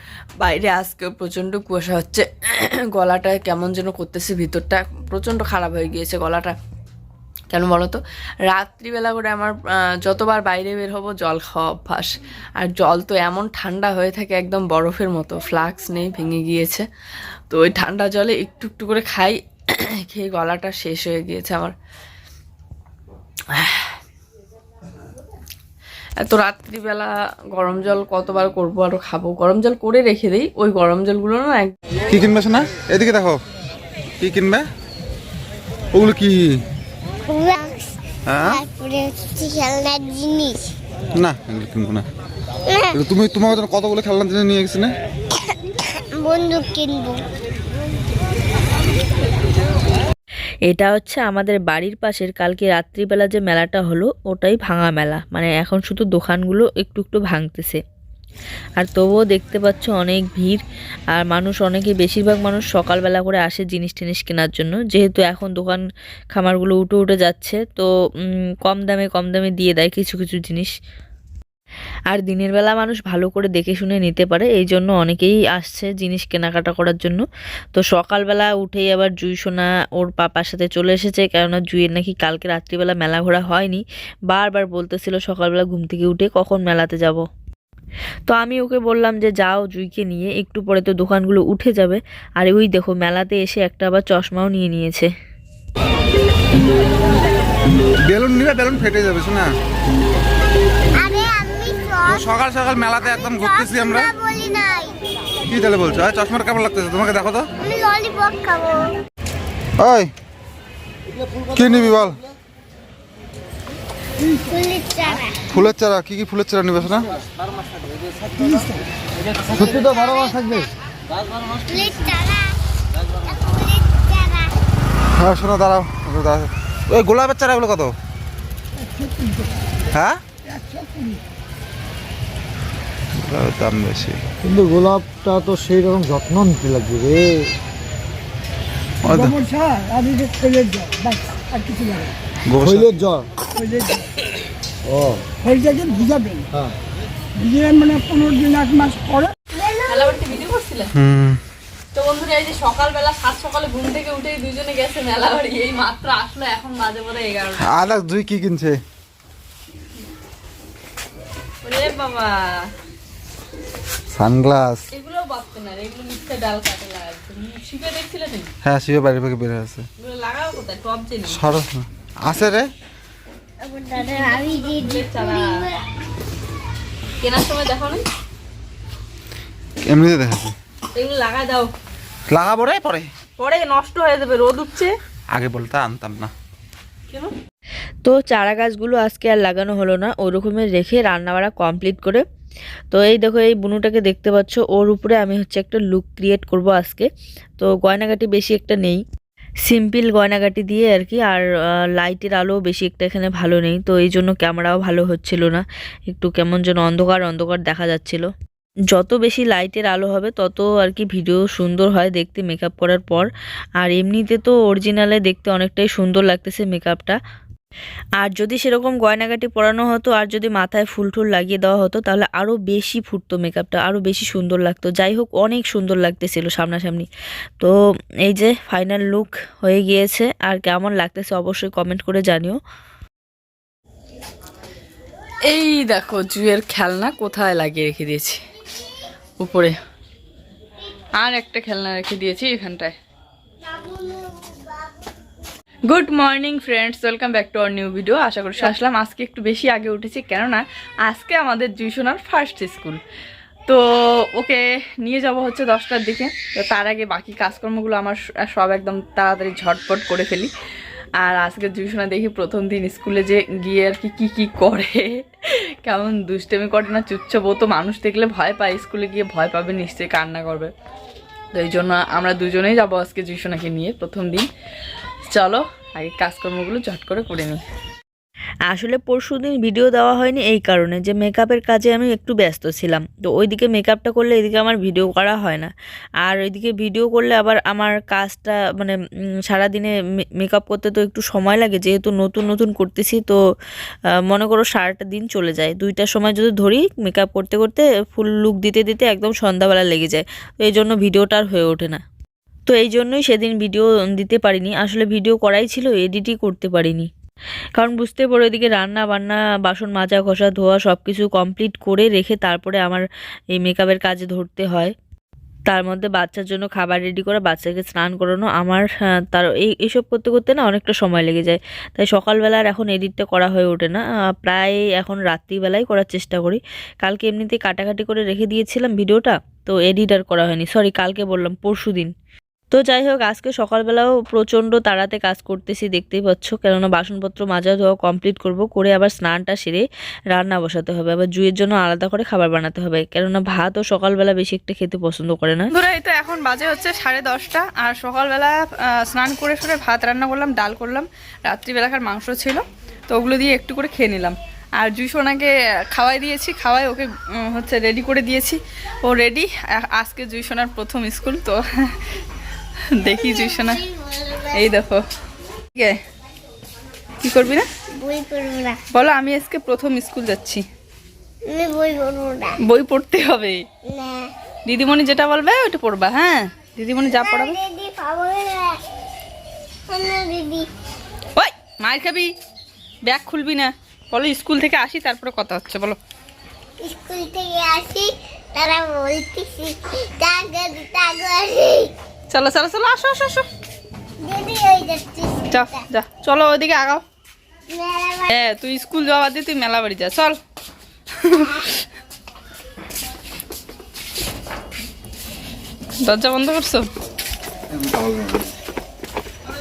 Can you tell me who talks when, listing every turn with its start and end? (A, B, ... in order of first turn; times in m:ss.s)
0:00.4-0:06.6 A
0:07.5-0:16.8 A
0:17.5-0:21.7 A
0:23.5-0:24.0 A
0:26.2-0:31.7 A
0:32.1-0:33.4 B
0:34.2-0:34.7 B
0:35.9-0:36.6 B
0:37.3-0:40.7 C
0:38.3-0:38.6 B
0:41.2-0:42.1 B
0:42.7-0:43.0 C
0:42.9-0:45.0 B
0:46.2-0:47.2 C
0:50.7-0:57.8 D
0:58.8-1:00.6 D
1:01.1-1:05.8 D
1:06.3-1:10.7 D
1:12.1-1:17.2 D
1:17.7-1:27.2 D
1:28.3-1:35.1 D
1:38.0-1:39.5 B
1:41.0-1:42.3 C
1:42.1-1:44.1 B
1:43.0-1:45.0 C
1:45.5-1:47.5 B
1:47.6-1:48.9 C
1:49.8-1:50.1 B
1:51.5-1:52.2 B
1:54.3-1:55.4 C
1:55.5-1:57.2 B
1:59.5-2:00.7 C
1:59.8-2:00.6 E
2:01.5-2:02.6 C
2:03.1-2:04.5 C
2:05.2-2:07.9 B
2:09.9-2:10.2 B
2:13.2-2:14.2 B
2:14.4-2:17.4 E
2:19.0-2:19.4 B
2:19.8-2:22.0 F
2:22.5-2:23.2 B
2:24.9-2:25.2 E
2:25.4-2:26.5 F
2:27.4-2:29.2 F
2:29.6-2:30.2 C
2:29.9-2:30.9 A
2:31.0-2:31.4 B
2:32.0-2:37.6 A
2:37.6-2:38.8 B
2:41.6-2:42.4 A
2:44.1-2:44.8 B
2:44.9-2:48.5 A
2:48.6-2:49.9 B
2:50.0-2:51.4 A
2:51.3-2:52.7 B
2:53.6-2:55.8 C
2:54.0-2:55.5 A
2:57.2-2:58.0 A
2:59.8-3:00.5 B
3:01.0-3:01.7 A
3:02.3-3:03.1 B
3:03.4-3:04.9 A
3:05.3-3:06.3 B
3:08.0-3:12.2 D
3:12.9-3:19.0 D
3:19.6-3:28.3 D
3:28.9-3:33.3 D
3:33.8-3:37.2 D
3:38.2-3:47.1 D
3:48.3-3:52.6 D
3:55.5-3:58.4 A
3:59.4-3:59.8 A
4:01.2-4:03.0 A
4:03.6-4:04.9 C
4:05.9-4:13.0 A
4:14.4-4:20.5 A
4:21.2-4:30.7 A
4:31.5-4:34.5 A
4:35.3-4:37.6 A
4:38.7-4:45.7 D
4:46.2-4:53.4 D
4:54.3-5:02.0 D
5:02.7-5:07.1 D
5:07.8-5:14.9 D
5:15.7-5:32.1 D
5:32.7-5:45.7 D
5:45.7-6:02.0 A
6:03.0-6:03.8 A
6:03.1-6:04.7 C
6:04.5-6:05.0 A
6:07.2-6:07.7 A
6:08.0-6:08.8 C
6:08.9-6:10.6 A
6:11.5-6:12.6 C
6:12.6-6:13.6 A
6:13.9-6:14.3 C
6:14.7-6:17.6 A
6:17.2-6:18.8 C
6:19.9-6:20.7 C
6:21.4-6:22.3 A
6:23.1-6:26.0 A
6:26.8-6:31.9 C
6:32.3-6:33.5 A
6:34.2-6:35.8 C
6:35.5-6:37.0 A
6:37.7-6:38.3 C
6:38.3-6:40.4 A
6:41.2-6:41.7 A
6:46.0-6:46.9 A
6:47.7-6:48.5 B